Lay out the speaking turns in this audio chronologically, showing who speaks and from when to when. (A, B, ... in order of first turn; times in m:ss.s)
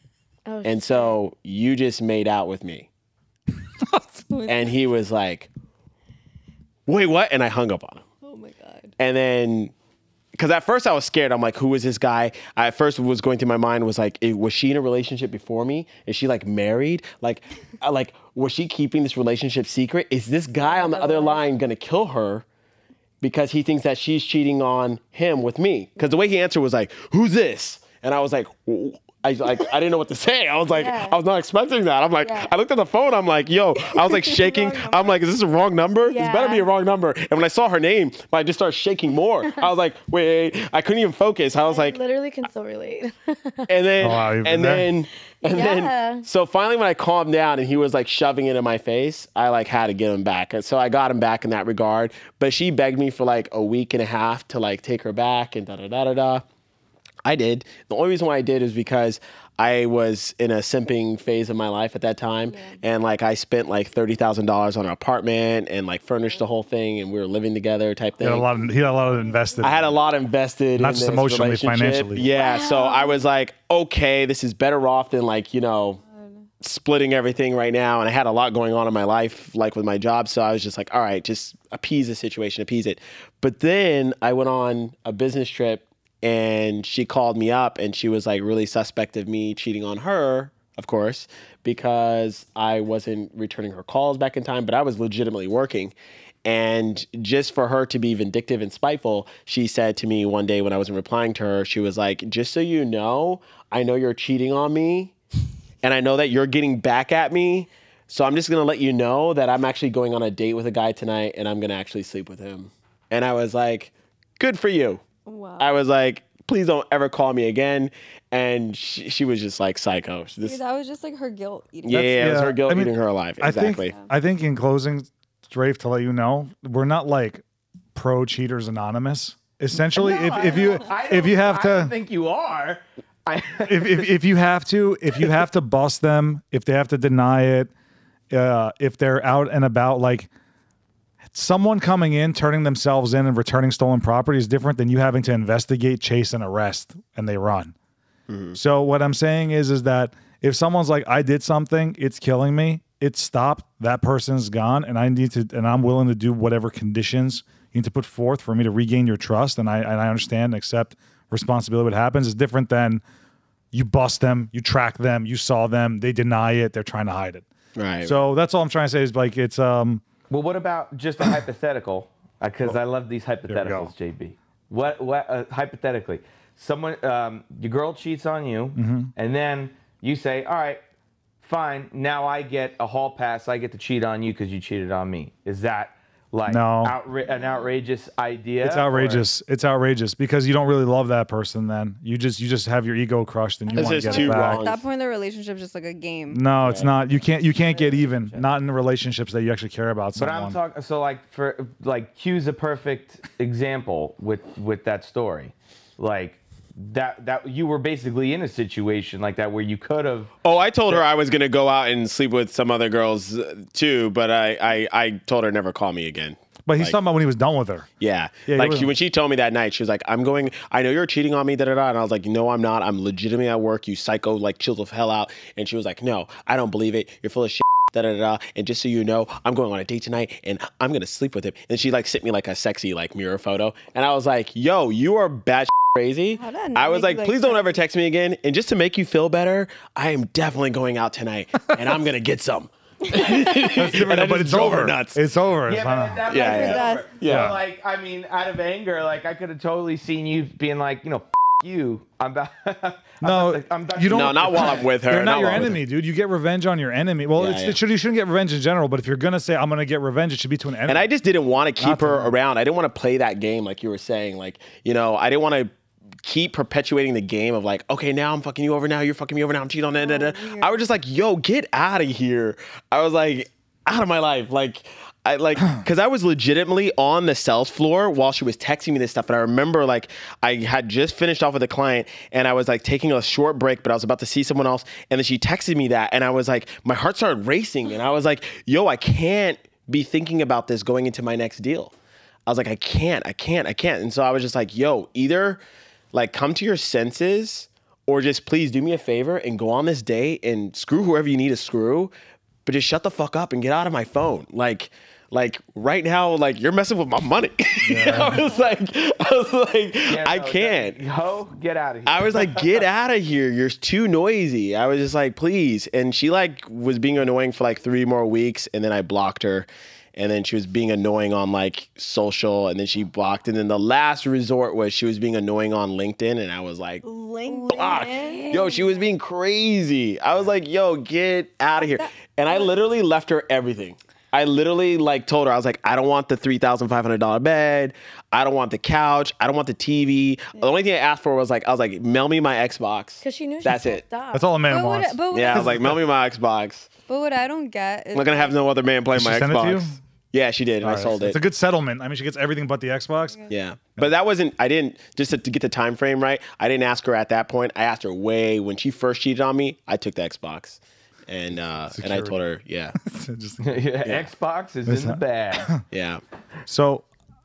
0:00.4-0:01.2 A
0:00.6-0:02.9 B
0:04.3-0:04.7 C
0:04.4-0:05.5 B
0:06.9-0:08.0 B
0:08.2-0:08.9 C
0:09.0-0:09.7 B
0:10.3-0:22.4 B
0:20.6-0:21.4 A
0:23.2-0:42.0 B
0:30.7-0:31.2 A
0:32.2-0:32.5 A
0:34.3-0:35.0 C
0:36.0-0:36.7 A
0:41.6-0:43.7 A
0:43.7-0:56.4 B
0:44.0-0:44.9 D
0:45.5-0:46.2 A
0:57.2-1:08.5 B
1:02.5-1:02.8 A
1:08.2-1:09.9 D
1:09.6-1:16.0 B
1:10.8-1:12.2 D
1:12.2-1:13.2 A
1:16.6-1:45.1 B
1:45.8-1:55.0 B
1:55.2-1:55.7 C
1:55.6-2:00.6 B
2:00.4-2:02.1 C
2:01.8-2:03.9 B
2:01.9-2:07.4 D
2:07.9-2:11.9 D
2:09.9-2:14.1 E
2:13.6-2:17.7 D
2:18.3-2:20.3 D
2:21.3-2:27.7 D
2:28.3-2:28.6 B
2:28.5-2:43.0 D
2:43.7-2:47.4 D
2:47.8-2:48.2 B
2:48.0-2:50.0 D
2:50.3-3:00.8 E
2:53.5-2:53.9 D
2:58.7-2:59.1 D
3:01.4-3:09.2 E
3:06.4-3:07.0 D
3:07.3-3:07.8 C
3:08.6-3:14.6 D
3:13.7-3:16.4 C
3:13.7-3:14.8 B
3:16.3-3:20.6 D
3:16.6-3:16.9 B
3:17.5-3:18.4 C
3:20.1-3:30.3 E
3:30.4-3:37.0 B
3:36.7-3:37.9 D
3:38.0-4:05.2 B
3:38.4-3:38.9 D
3:56.4-3:57.8 C
4:03.1-4:03.7 C
4:03.6-4:06.2 D
4:05.6-4:14.9 E
4:06.2-4:07.6 B
4:06.4-4:07.1 C
4:07.2-4:07.6 D
4:13.2-4:21.1 D
4:14.1-4:15.8 B
4:17.4-4:17.8 B
4:20.9-4:25.7 B
4:21.8-4:22.3 D
4:26.2-4:51.9 B
4:30.0-4:30.8 C
4:52.4-4:55.6 B
4:56.1-5:02.1 B
5:02.6-5:11.0 B
5:07.8-5:08.4 D
5:10.1-5:12.8 E
5:12.0-5:27.0 B
5:27.0-5:29.1 C
5:27.5-5:28.6 A
5:27.7-5:44.0 B
5:31.8-5:32.7 C
5:43.2-5:44.5 A
5:44.3-5:46.0 D
5:44.7-5:45.9 C
5:45.3-5:46.9 B
5:47.1-5:48.5 C
5:48.1-5:51.4 B
5:49.1-5:50.0 D
5:50.8-5:53.4 D
5:53.5-6:02.9 B
6:01.9-6:02.4 D
6:03.0-6:03.6 D
6:03.6-6:05.8 E
6:04.0-6:04.3 B
6:04.8-6:05.8 D
6:05.9-6:06.2 B
6:06.6-6:07.0 D